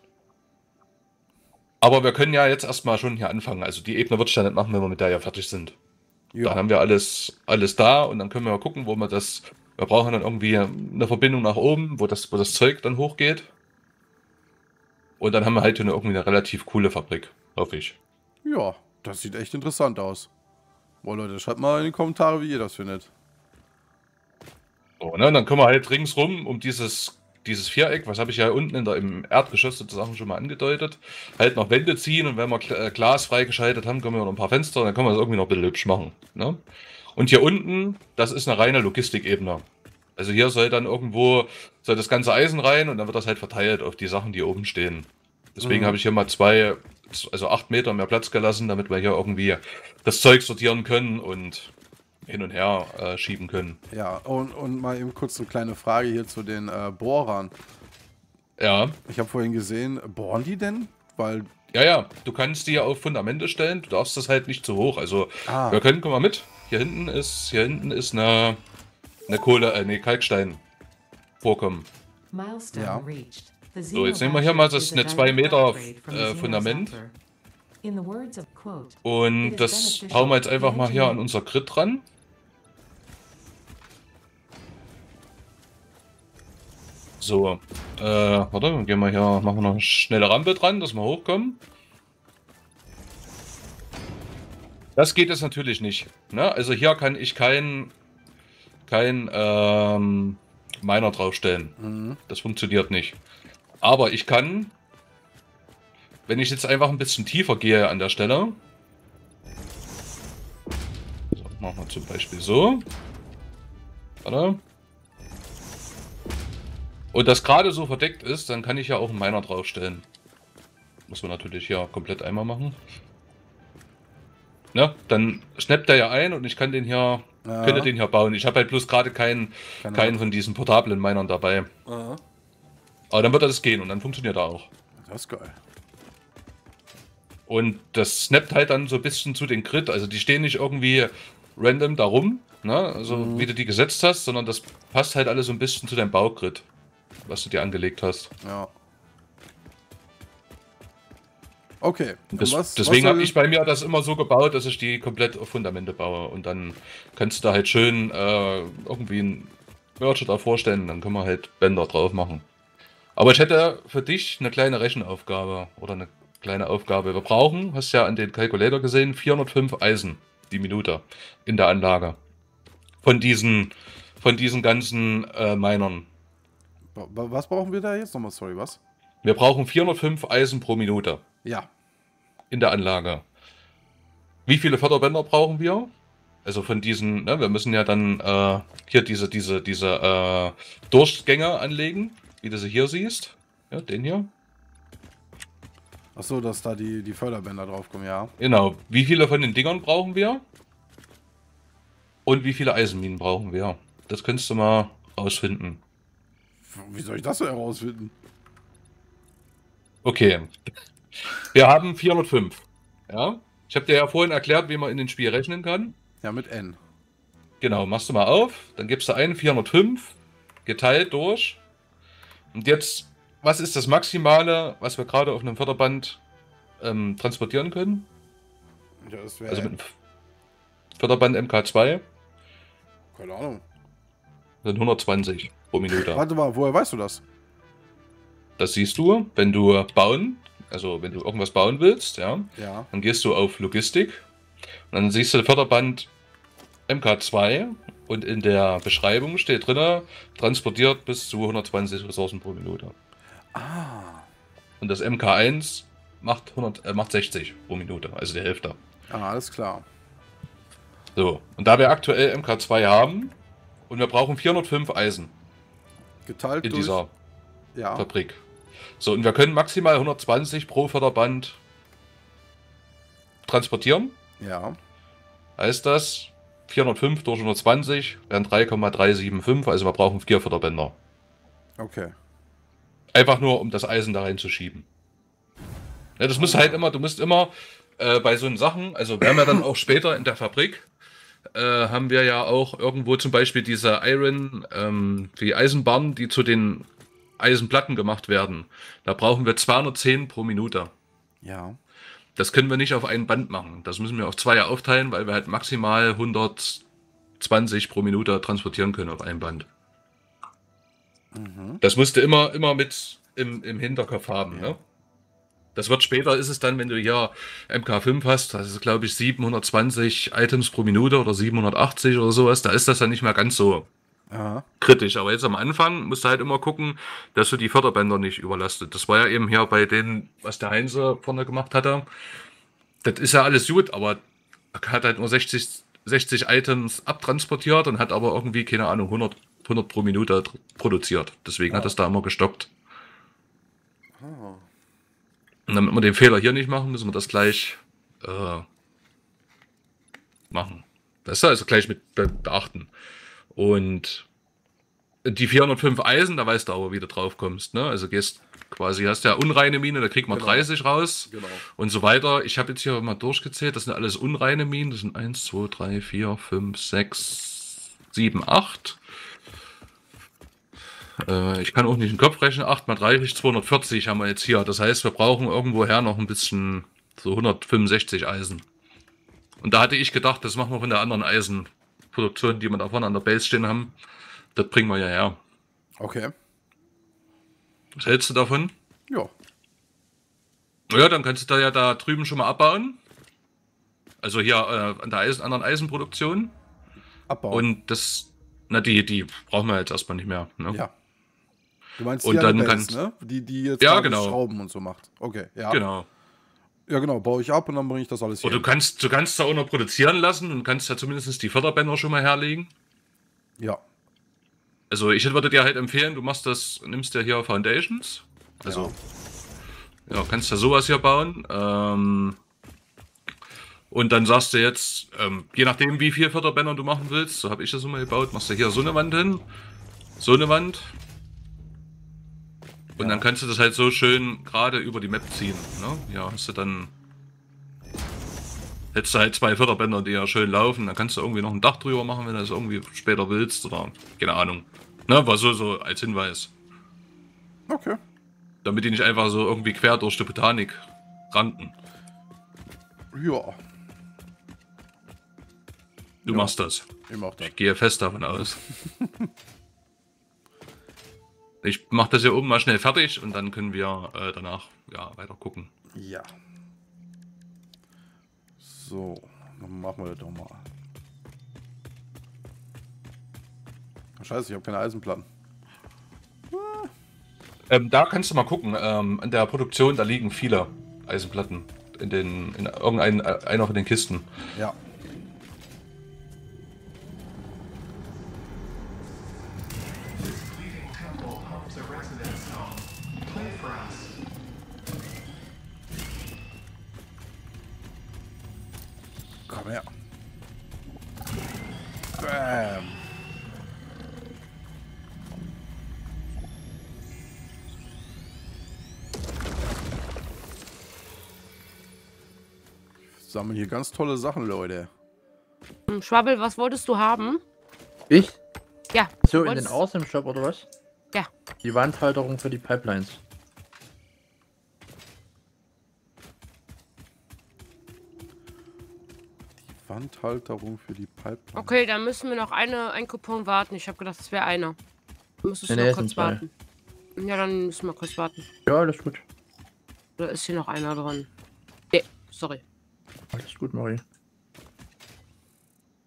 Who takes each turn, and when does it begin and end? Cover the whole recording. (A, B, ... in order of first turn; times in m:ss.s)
0:01.8-0:05.8 A
0:06.3-0:06.6 B
0:06.4-0:13.5 A
0:15.2-0:18.0 A
0:18.4-0:20.3 B
0:21.0-0:23.1 B
0:25.0-0:36.6 A
0:37.2-0:39.6 A
0:40.2-0:51.7 A
0:45.6-0:46.0 B
0:52.2-0:53.8 A
0:53.9-0:57.5 B
0:58.6-0:59.0 A
0:59.1-1:01.5 B
1:01.7-1:08.6 A
1:05.5-1:05.8 B
1:09.3-1:10.6 A
1:11.4-1:11.9 A
1:12.3-1:17.2 C
1:12.7-1:13.1 B
1:13.9-1:17.0 A
1:17.8-1:21.2 C
1:19.0-1:22.0 A
1:27.2-1:31.6 A
1:35.0-1:37.9 A
1:38.9-1:41.8 A
1:41.8-1:42.2 B
1:42.3-1:43.2 A
1:43.8-1:44.7 A
1:46.3-1:48.6 A
1:51.3-1:52.8 A
1:54.2-1:54.6 A
1:57.1-2:00.0 A
2:01.1-2:02.8 A
2:04.7-2:11.7 A
2:07.4-2:07.9 B
2:09.8-2:10.2 B
2:11.9-2:12.2 B
2:13.1-2:14.7 A
2:15.0-2:15.6 B
2:17.5-2:26.6 A
2:23.1-2:23.5 B
2:27.3-2:28.3 A
2:28.4-2:28.7 B
2:31.8-2:33.4 B
2:32.4-2:42.4 A
2:43.2-2:52.2 A
2:53.0-2:56.1 A
2:57.0-2:58.8 B
2:59.2-3:01.2 A
3:01.4-3:01.7 B
3:02.5-3:03.2 A
3:04.5-3:05.9 A
3:06.4-3:14.3 A
3:16.2-3:18.3 B
3:18.4-3:20.4 A
3:22.3-3:25.8 A
3:26.7-3:28.1 B
3:30.0-3:30.6 A
3:31.2-3:36.0 A
3:36.2-3:36.8 B
3:37.6-3:41.6 A
3:42.5-3:46.2 A
3:46.8-3:48.1 A
3:49.0-3:49.7 B
3:49.5-3:49.9 A
3:51.0-3:52.0 A
3:53.1-3:53.6 B
3:54.6-3:56.2 A
3:56.0-3:57.2 B
3:58.6-4:04.2 A
4:02.6-4:02.9 B
4:04.9-4:06.1 A
4:06.9-4:13.0 A
4:13.5-4:14.3 B
4:14.8-4:18.8 A
4:19.1-4:19.9 B
4:21.2-4:23.4 A
4:23.9-4:25.3 A
4:26.3-4:27.0 B
4:26.6-4:27.1 A
4:27.8-4:28.1 B
4:28.0-4:28.4 A
4:29.0-4:31.6 A
4:33.5-4:34.2 A
4:34.4-4:34.8 B
4:35.6-4:41.0 A
4:41.8-4:42.1 B
4:43.1-4:44.9 A
4:46.2-4:50.8 A
4:46.3-4:46.8 B
4:51.5-4:56.9 A
4:57.4-5:00.9 A
5:01.4-5:01.8 B
5:02.4-5:06.8 A
5:07.4-5:09.7 A
5:11.3-5:11.8 B
5:11.8-5:14.8 A
5:14.5-5:14.8 B
5:15.8-5:23.9 A
5:24.3-5:24.7 B
5:24.8-5:32.1 A
5:33.0-5:34.2 A
5:34.7-5:42.7 A
5:41.7-5:42.0 B
5:44.2-5:44.6 B
5:45.7-5:48.7 A
5:50.5-5:52.9 A
5:53.5-5:54.3 A
5:55.2-6:09.0 A
6:00.3-6:00.7 B
6:01.3-6:01.6 B
6:11.2-6:18.6 A
6:19.6-6:23.9 A
6:24.6-6:25.4 A
6:26.0-6:26.3 B
6:28.0-6:28.7 A
6:30.9-6:33.0 A
6:34.2-6:36.6 A
6:37.3-6:37.7 B
6:37.5-6:40.8 A
6:42.0-6:45.8 B
6:42.2-6:43.0 A
6:43.8-6:44.4 A
6:45.7-6:46.1 A
6:46.9-6:48.7 B
6:48.4-6:52.7 A
6:54.9-6:58.9 A
6:58.7-6:59.0 B
7:00.1-7:02.4 A
7:03.9-7:09.4 A
7:10.2-7:10.9 A
7:13.0-7:13.3 B
7:13.0-7:16.9 A
7:18.9-7:26.5 A
7:27.7-7:28.0 B
7:28.6-7:31.8 A
7:33.1-7:33.6 B
7:36.2-7:36.5 B
7:36.3-7:36.9 A
7:37.1-7:37.5 B
7:37.4-7:38.6 A
7:39.0-7:39.3 B
7:41.6-7:45.7 A
7:45.9-7:46.3 B
7:48.6-7:50.6 B
7:54.2-7:55.3 B
7:56.5-7:56.9 B
7:57.7-8:04.3 A
8:11.1-8:12.7 B
8:13.5-8:13.9 B
8:19.5-8:19.9 B
8:22.2-8:23.0 B
8:33.2-8:34.9 B
8:35.9-8:37.4 D
8:38.1-8:38.4 E
8:38.9-8:39.8 D
8:39.2-8:40.7 E
8:41.6-8:43.2 E
8:49.8-8:51.8 B
8:51.6-8:54.8 D
8:55.4-8:56.5 D
8:55.7-8:56.4 E
8:57.2-8:58.5 D
8:58.7-8:59.2 E
9:00.2-9:01.3 D
9:01.9-9:02.6 D
9:03.3-9:04.0 E